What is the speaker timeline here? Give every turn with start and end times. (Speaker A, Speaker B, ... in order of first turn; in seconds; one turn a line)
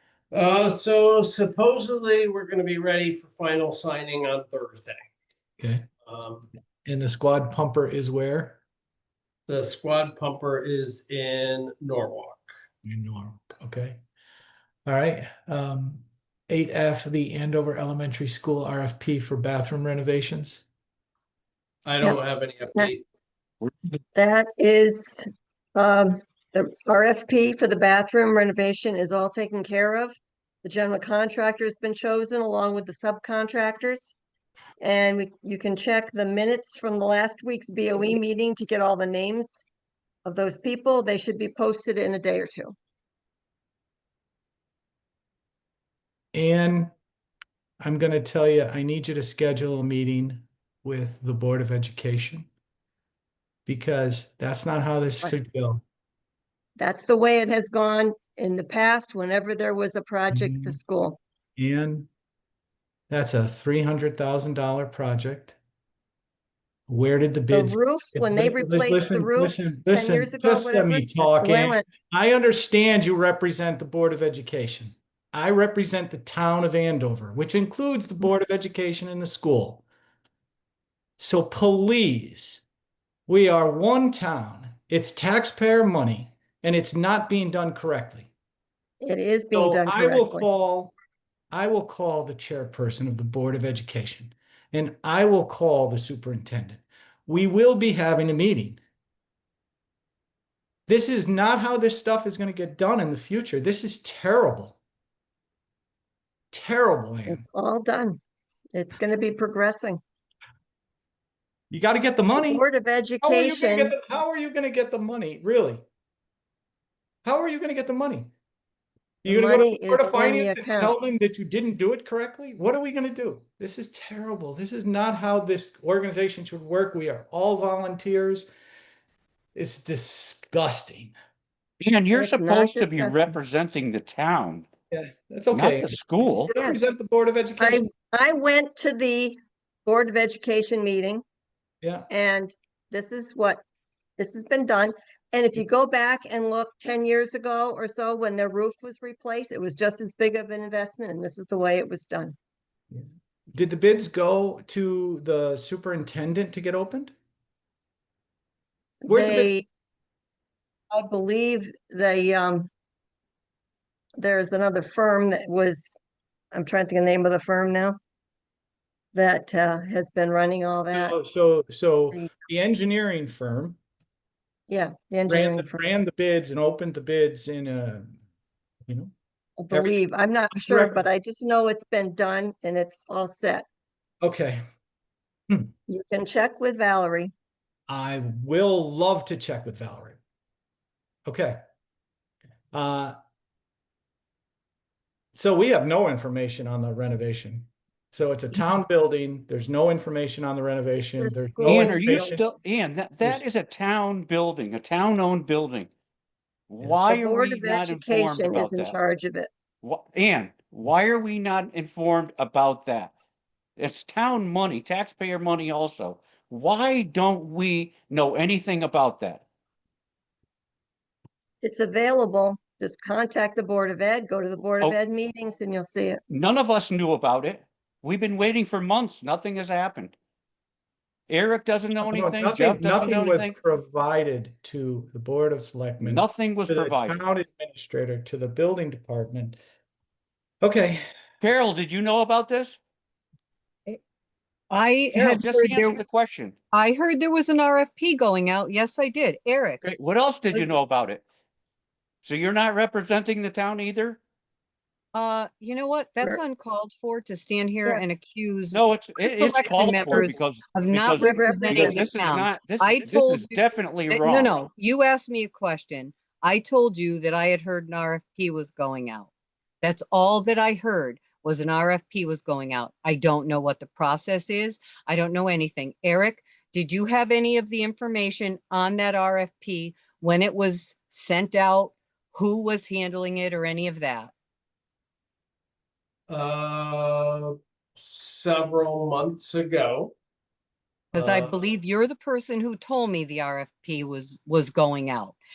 Speaker A: 0.3-5.0
Speaker B: 5.6-5.9
Speaker A: 6.0-6.5
Speaker B: 6.8-8.6
Speaker A: 9.5-12.4
Speaker B: 12.8-14.0
Speaker B: 14.8-20.6
Speaker A: 21.9-23.0
Speaker C: 24.1-34.1
Speaker C: 34.8-39.6
Speaker C: 40.2-42.7
Speaker B: 46.3-46.9
Speaker B: 47.8-52.5
Speaker B: 53.7-55.8
Speaker C: 56.8-61.2
Speaker B: 60.3-60.8
Speaker B: 61.6-62.1
Speaker B: 63.1-65.6
Speaker B: 66.9-79.8
Speaker C: 67.5-71.8
Speaker B: 81.2-82.6
Speaker B: 83.3-88.3
Speaker C: 89.0-90.5
Speaker B: 89.5-90.9
Speaker B: 91.5-98.8
Speaker B: 100.9-104.8
Speaker B: 106.5-107.4
Speaker C: 107.3-108.2
Speaker C: 108.7-110.0
Speaker B: 111.7-112.6
Speaker C: 112.3-113.9
Speaker B: 113.2-115.8
Speaker B: 117.2-118.3
Speaker B: 119.2-128.5
Speaker C: 119.3-120.9
Speaker B: 129.5-131.1
Speaker D: 131.8-134.7
Speaker C: 132.1-133.3
Speaker B: 134.9-137.8
Speaker D: 135.5-136.5
Speaker C: 136.5-136.8
Speaker C: 137.6-141.2
Speaker B: 141.8-142.1
Speaker C: 142.1-143.6
Speaker C: 144.2-152.3
Speaker B: 152.9-157.1
Speaker C: 159.0-159.7
Speaker B: 159.1-159.5
Speaker C: 160.9-162.7
Speaker C: 164.2-166.0
Speaker C: 166.5-168.0
Speaker C: 169.1-171.2
Speaker B: 170.9-173.8
Speaker C: 174.7-175.8
Speaker B: 175.3-178.2
Speaker B: 178.9-179.1
Speaker C: 179.6-183.7
Speaker B: 179.7-179.9
Speaker B: 180.5-181.0
Speaker B: 184.2-184.6
Speaker C: 185.9-187.3
Speaker B: 187.9-190.2
Speaker B: 191.2-191.6
Speaker B: 192.7-193.2
Speaker B: 195.3-202.4
Speaker C: 201.2-202.4
Speaker D: 201.6-205.9
Speaker D: 206.7-208.9
Speaker C: 207.1-209.5
Speaker D: 209.8-213.1
Speaker D: 213.8-219.4
Speaker C: 221.6-226.2
Speaker D: 226.3-230.1
Speaker D: 231.3-233.5
Speaker B: 232.0-239.6
Speaker D: 236.0-237.2
Speaker B: 240.6-241.0
Speaker D: 241.4-242.8
Speaker E: 244.7-246.0
Speaker D: 245.1-246.6
Speaker E: 246.7-249.8
Speaker D: 249.8-251.2
Speaker D: 252.2-254.2
Speaker E: 255.1-269.3
Speaker D: 258.7-264.6
Speaker C: 261.2-262.1
Speaker E: 269.8-284.3
Speaker A: 286.3-290.1
Speaker E: 291.1-295.4
Speaker A: 291.1-291.5